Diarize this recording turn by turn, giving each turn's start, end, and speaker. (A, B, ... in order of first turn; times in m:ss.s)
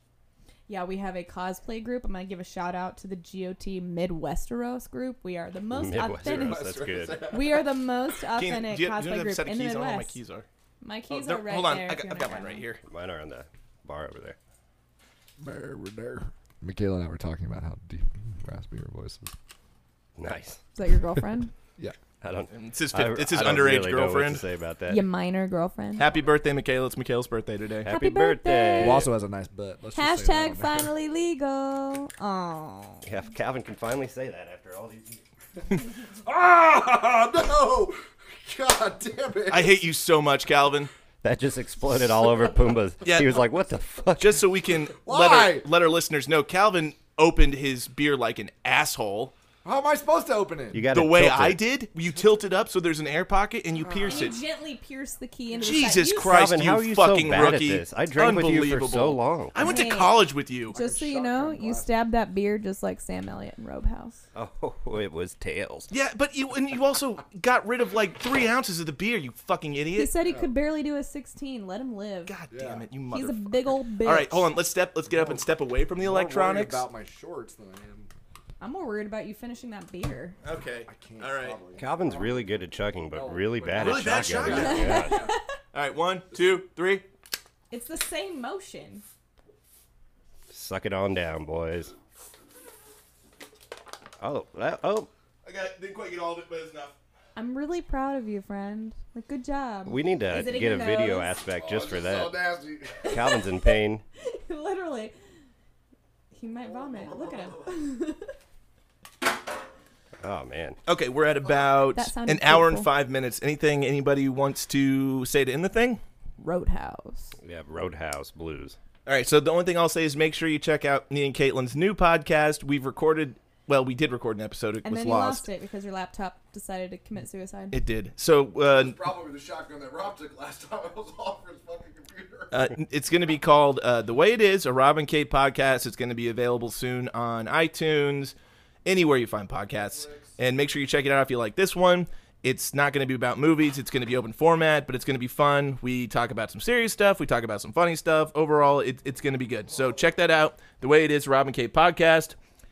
0:00.7-0:10.2 A
0:05.7-0:07.3 B
0:06.2-0:07.7 C
0:08.3-0:10.5 D
0:10.8-0:12.6 A
0:11.1-0:12.8 D
0:12.8-0:14.4 B
0:15.4-0:19.3 C
0:20.2-0:20.6 B
0:20.7-0:21.5 A
0:22.2-0:25.0 B
0:22.5-0:24.4 D
0:24.9-0:26.1 A
0:26.0-0:27.9 D
0:27.8-0:29.0 A
0:27.8-0:29.1 B
0:28.8-0:30.9 C
0:29.9-0:33.0 A
0:33.0-0:35.2 B
0:36.0-0:39.8 C
0:39.5-0:40.9 D
0:41.2-0:44.4 B
0:43.0-0:43.4 D
0:44.2-0:49.3 D
0:45.0-0:45.7 C
0:49.6-0:50.9 C
0:50.7-0:51.6 B
0:50.9-0:54.4 D
0:53.9-0:56.3 A
0:55.6-1:00.8 D
0:56.2-0:59.9 B
0:59.6-1:04.2 A
1:00.7-1:01.9 C
1:04.3-1:05.9 B
1:05.9-1:10.1 D
1:09.9-1:12.3 A
1:10.2-1:10.5 C
1:12.3-1:16.8 D
1:12.5-1:12.8 C
1:13.1-1:14.5 A
1:16.0-1:18.1 C
1:18.6-1:20.4 A
1:20.4-1:21.6 D
1:20.9-1:22.4 C
1:21.8-1:25.2 B
1:23.1-1:25.4 C
1:23.8-1:25.1 D
1:24.5-1:25.4 A
1:25.7-1:27.0 D
1:27.7-1:29.0 A
1:30.5-1:31.9 B
1:34.2-1:35.1 B
1:35.4-1:37.0 D
1:37.4-1:41.4 A
1:39.8-1:42.4 B
1:41.5-1:43.4 C
1:43.1-1:44.0 B
1:43.6-1:45.1 A
1:46.3-1:48.3 A
1:50.2-1:50.8 B
1:50.9-1:56.0 D
1:51.9-1:52.9 A
1:56.4-1:57.3 A
1:57.4-1:58.8 B
1:59.0-2:05.5 D
2:04.8-2:07.8 A
2:07.7-2:09.0 D
2:08.7-2:12.5 C
2:12.5-2:32.4 D
2:20.0-2:20.3 C